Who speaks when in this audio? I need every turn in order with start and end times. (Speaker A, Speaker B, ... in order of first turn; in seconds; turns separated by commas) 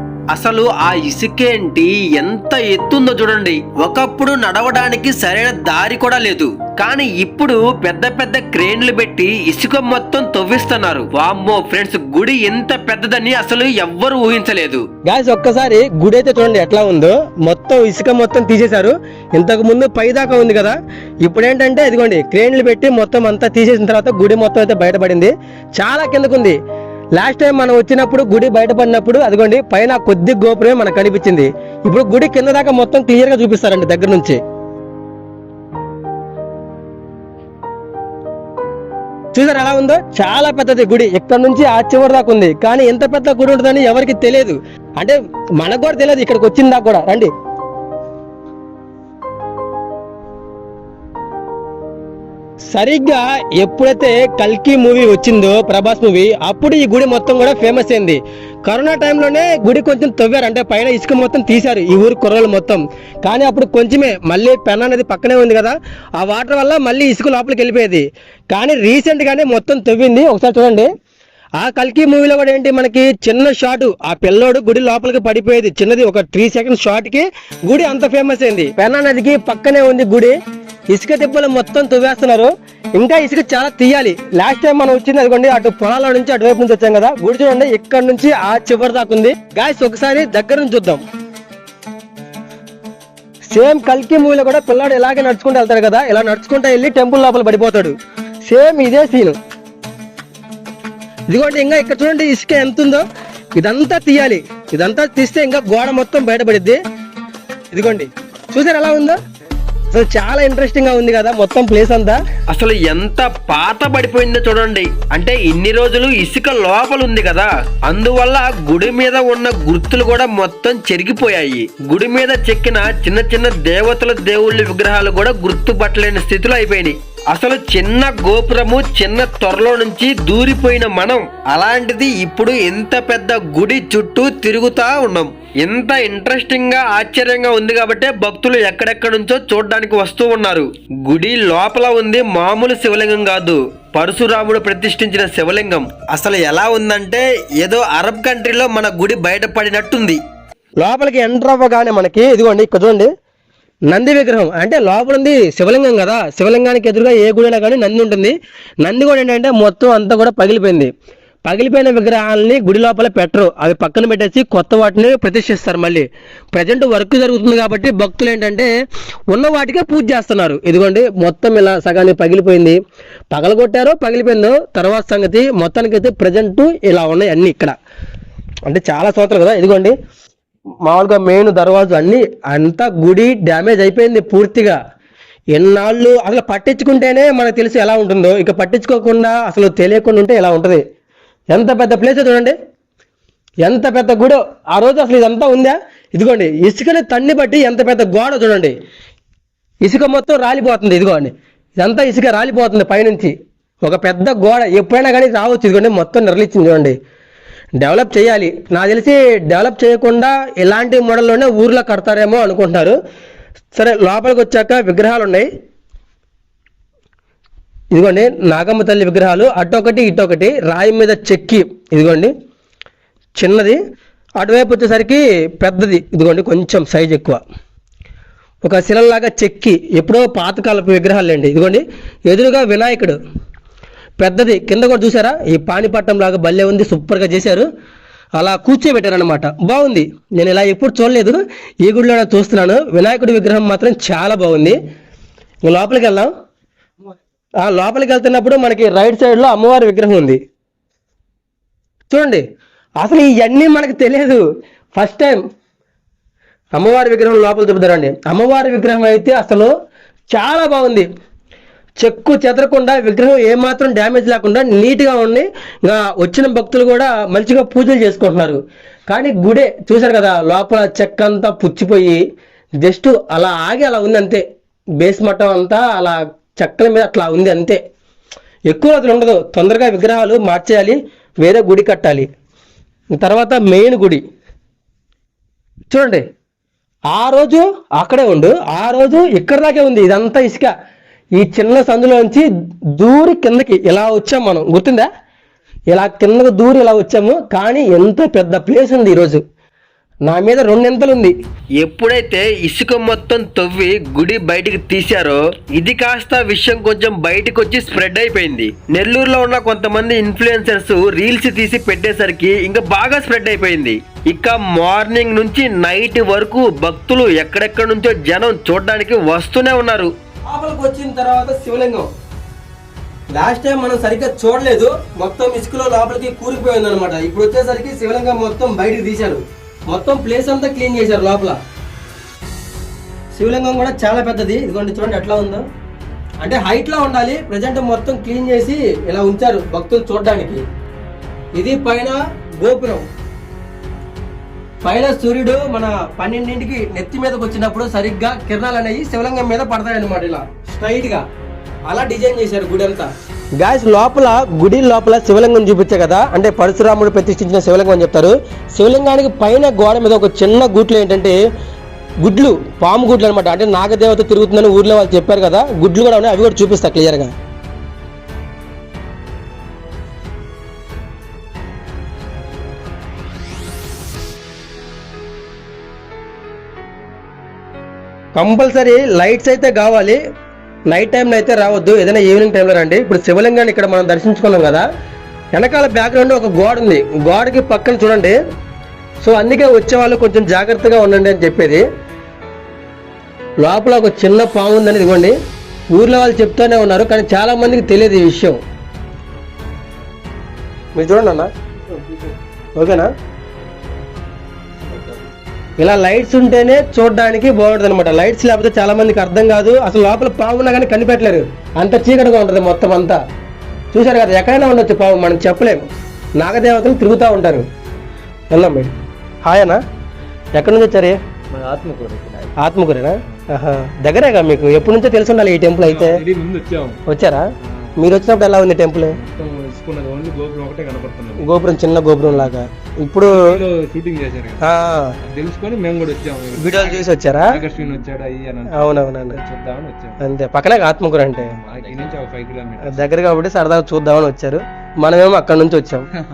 Speaker A: 0.3-14.8, Speaker B: 15.0-26.6, Speaker B: 27.2-34.4, Speaker B: 39.3-47.3, Speaker B: 52.7-70.9, Speaker B: 71.6-80.3, Speaker B: 80.9-91.0, Speaker B: 93.5-99.4, Speaker B: 101.3-103.0, Speaker B: 103.6-106.8, Speaker B: 107.7-109.2, Speaker B: 109.9-112.2, Speaker A: 112.5-150.2, Speaker B: 150.8-153.1, Speaker B: 153.9-160.9, Speaker B: 161.4-168.7, Speaker B: 169.3-172.8, Speaker B: 173.3-177.7, Speaker B: 178.7-179.9, Speaker B: 180.8-184.8, Speaker B: 185.5-190.8, Speaker B: 191.5-192.5, Speaker B: 193.6-198.7, Speaker B: 199.8-206.9, Speaker B: 207.8-213.0, Speaker B: 213.7-215.5, Speaker B: 217.9-222.3, Speaker B: 223.4-223.8, Speaker B: 224.4-227.4, Speaker B: 228.6-233.2, Speaker B: 234.2-237.7, Speaker B: 238.4-244.8, Speaker B: 245.7-246.3, Speaker B: 247.6-250.4, Speaker B: 252.1-252.4, Speaker B: 253.0-254.4, Speaker B: 254.9-255.4, Speaker B: 256.8-259.7, Speaker B: 260.3-261.1, Speaker B: 262.0-272.2, Speaker B: 272.8-274.4, Speaker B: 275.0-277.8, Speaker B: 278.7-282.3, Speaker B: 283.1-284.2, Speaker B: 285.9-286.2, Speaker B: 287.1-290.7, Speaker B: 291.4-292.4, Speaker B: 293.0-295.1, Speaker B: 295.9-299.4, Speaker B: 300.3-301.3, Speaker A: 301.8-320.1, Speaker B: 320.5-322.1, Speaker B: 323.3-331.6, Speaker B: 333.3-335.6, Speaker B: 336.4-340.6, Speaker B: 341.6-343.0, Speaker B: 344.8-351.2, Speaker B: 351.9-361.4, Speaker B: 362.2-367.3, Speaker B: 378.4-380.2, Speaker B: 380.9-384.9, Speaker B: 385.6-388.4, Speaker B: 389.2-391.8, Speaker B: 393.6-395.3, Speaker B: 395.9-398.6, Speaker B: 400.9-401.5, Speaker B: 402.8-403.1, Speaker C: 404.9-405.1, Speaker B: 405.8-413.2, Speaker B: 413.9-415.8, Speaker B: 416.4-417.6, Speaker B: 418.5-418.9, Speaker B: 419.4-419.8, Speaker B: 420.6-421.2, Speaker C: 421.5-422.5, Speaker B: 422.6-426.2, Speaker C: 425.8-427.0, Speaker B: 427.1-427.4, Speaker C: 427.6-428.0, Speaker B: 428.0-429.1, Speaker C: 429.1-431.6, Speaker B: 431.4-433.4, Speaker C: 432.3-432.6, Speaker C: 433.2-440.2, Speaker B: 434.6-435.1, Speaker B: 436.6-437.6, Speaker B: 438.7-439.4, Speaker B: 440.2-441.5, Speaker C: 441.5-443.1, Speaker B: 442.8-446.0